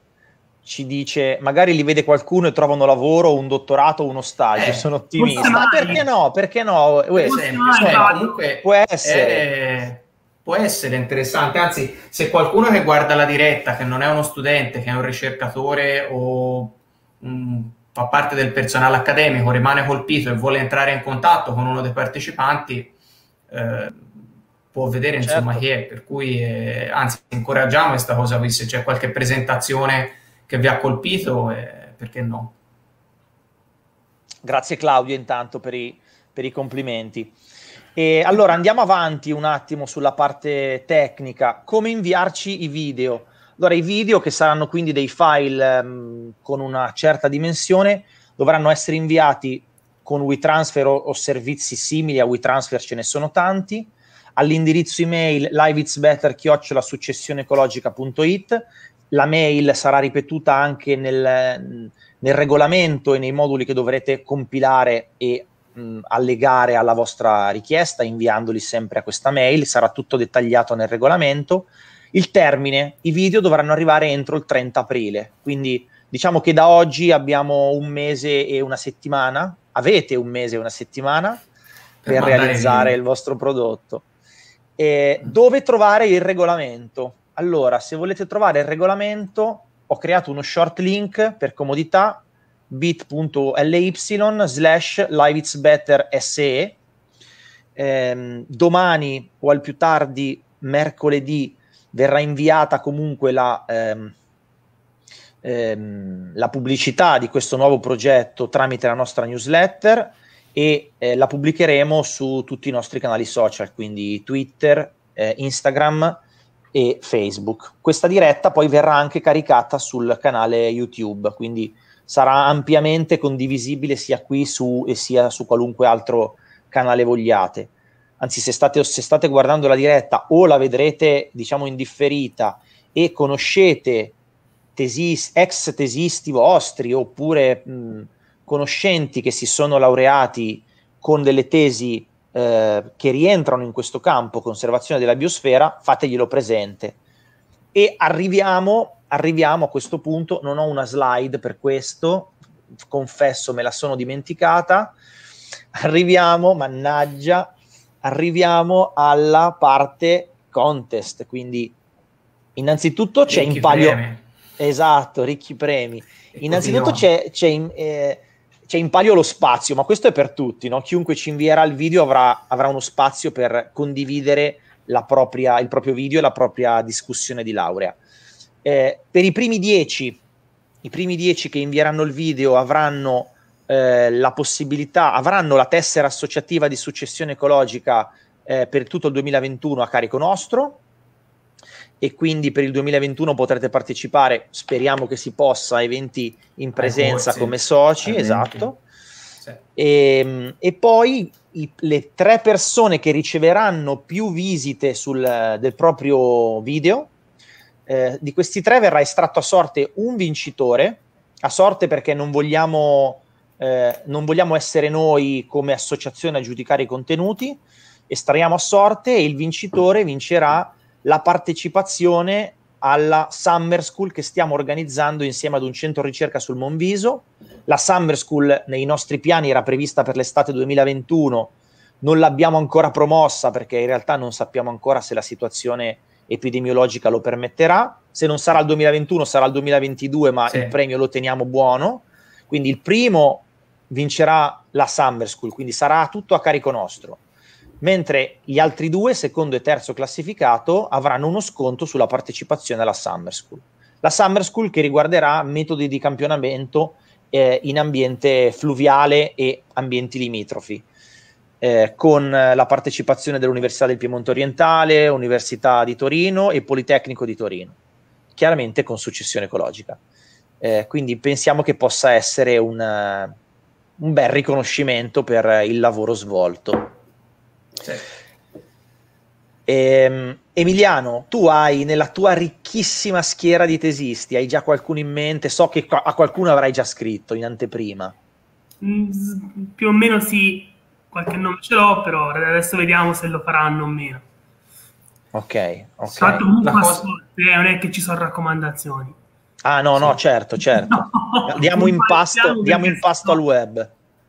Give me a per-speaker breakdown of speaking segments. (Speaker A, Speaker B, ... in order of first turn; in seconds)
Speaker A: 0.6-8.1, 8.6-9.4, 25.2-25.6, 34.4-37.3, 38.0-81.4, 82.1-84.0, 84.8-96.8, 97.8-104.1, 105.4-116.2, 116.7-134.2, 134.8-147.0, 147.7-152.4, 152.9-154.9, 155.8-157.5, 158.0-161.8, 162.6-164.0, 164.6-178.0, 178.6-180.2, 180.8-190.8, 192.0-198.8, 199.8-207.1, 207.9-247.2, 247.8-260.8, 261.6-267.8, 268.4-270.0, 270.6-273.4, 274.0-276.9, 279.7-288.1, 295.3-296.4, 299.6-303.9
Speaker B: 4.5-5.6, 7.2-22.9, 23.5-32.5, 82.0-82.9, 163.3-164.2, 166.3-167.1, 196.8-198.7, 240.5-240.7, 296.6-297.0, 299.9-300.2
Speaker C: 5.2-6.1, 7.1-8.4, 288.8-294.2, 296.1-299.2, 300.6-303.4